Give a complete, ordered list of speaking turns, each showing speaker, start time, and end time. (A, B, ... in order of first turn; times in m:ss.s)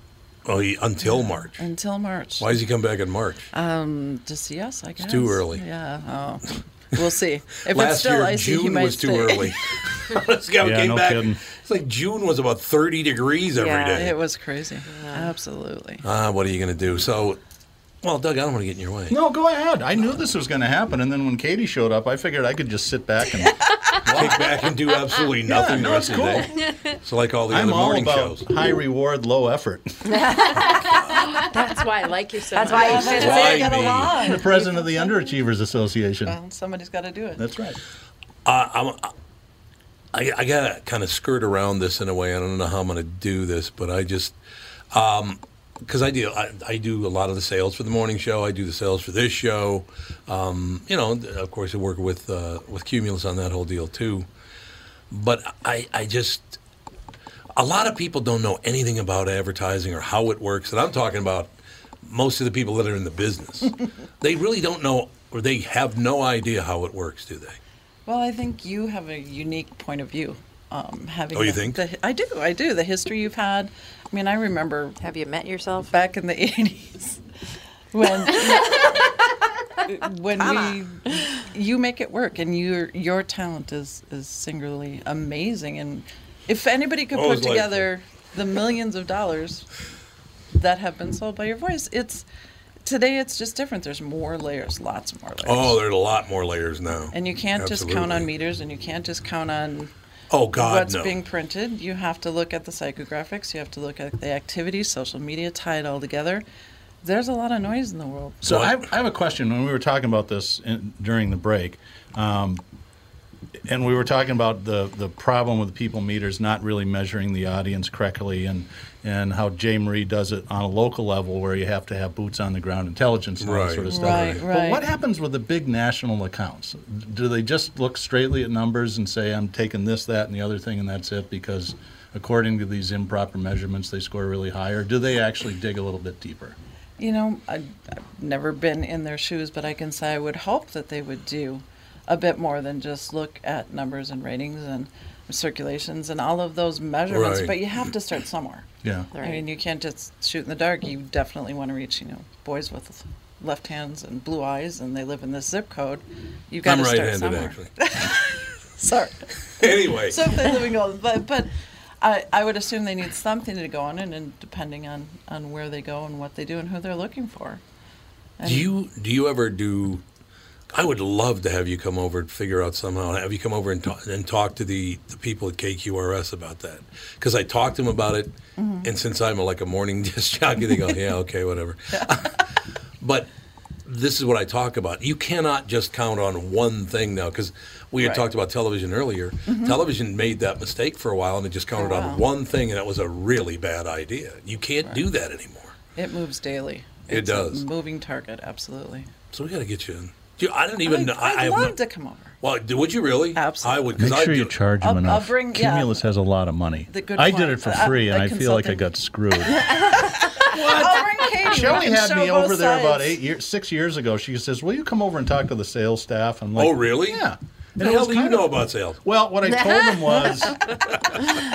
0:00.4-0:01.6 A
0:01.0-0:02.5 B
0:02.4-0:03.5 A
0:03.5-0:09.5 B
0:05.0-0:05.6 A
0:07.7-0:14.1 A
0:10.6-0:11.4 C
0:13.5-0:14.1 D
0:13.9-0:16.0 B
0:14.9-0:15.3 D
0:16.0-0:17.4 A
0:18.0-0:19.2 A
0:19.1-0:24.5 C
0:24.0-0:28.4 A
0:25.4-0:26.5 C
0:27.5-0:30.4 C
0:30.3-0:30.5 D
0:31.1-0:33.7 E
0:32.5-0:33.9 D
0:32.6-0:35.1 B
0:33.1-0:34.1 A
0:34.2-0:36.4 C
0:36.2-0:37.4 B
0:37.4-0:37.8 C
0:38.4-0:39.1 A
0:40.1-0:44.3 A
0:44.9-0:54.3 A
0:55.1-0:56.6 A
0:57.6-1:01.5 A
1:02.0-1:07.6 A
1:08.0-1:15.0 B
1:11.3-1:11.8 A
1:15.0-1:15.9 D
1:15.9-1:17.2 B
1:17.9-1:19.1 B
1:19.8-1:29.6 B
1:20.4-1:20.8 D
1:27.1-1:27.9 A
1:30.5-1:32.2 B
1:32.8-1:35.8 B
1:35.4-1:38.3 A
1:37.1-1:39.9 B
1:40.3-1:41.2 A
1:40.5-1:46.4 B
1:47.0-1:48.5 B
1:48.4-1:52.6 C
1:48.5-1:48.7 A
1:53.7-2:16.6 C
2:03.4-2:04.4 A
2:03.9-2:04.8 B
2:17.0-2:28.7 B
2:27.1-2:27.6 A
2:28.8-2:29.1 C
2:29.1-2:29.4 D
2:29.2-2:41.5 B
2:36.6-2:37.7 A
2:39.6-2:40.4 A
2:42.0-2:47.6 B
2:48.4-2:48.7 B
2:48.4-2:50.0 A
2:50.7-3:02.4 A
2:58.6-2:58.9 B
3:03.0-3:03.3 A
3:03.8-3:15.7 A
3:08.0-3:08.2 B
3:09.5-3:09.8 B
3:11.7-3:12.2 B
3:15.9-3:19.1 B
3:17.1-3:17.6 A
3:19.3-3:21.8 A
3:20.8-3:22.3 B
3:22.4-3:24.6 A
3:23.3-3:23.9 B
3:24.0-3:29.8 C
3:24.8-3:26.0 B
3:26.9-3:28.8 B
3:29.5-3:33.2 B
3:30.4-3:40.6 C
3:36.6-3:37.2 A
3:37.8-3:39.0 A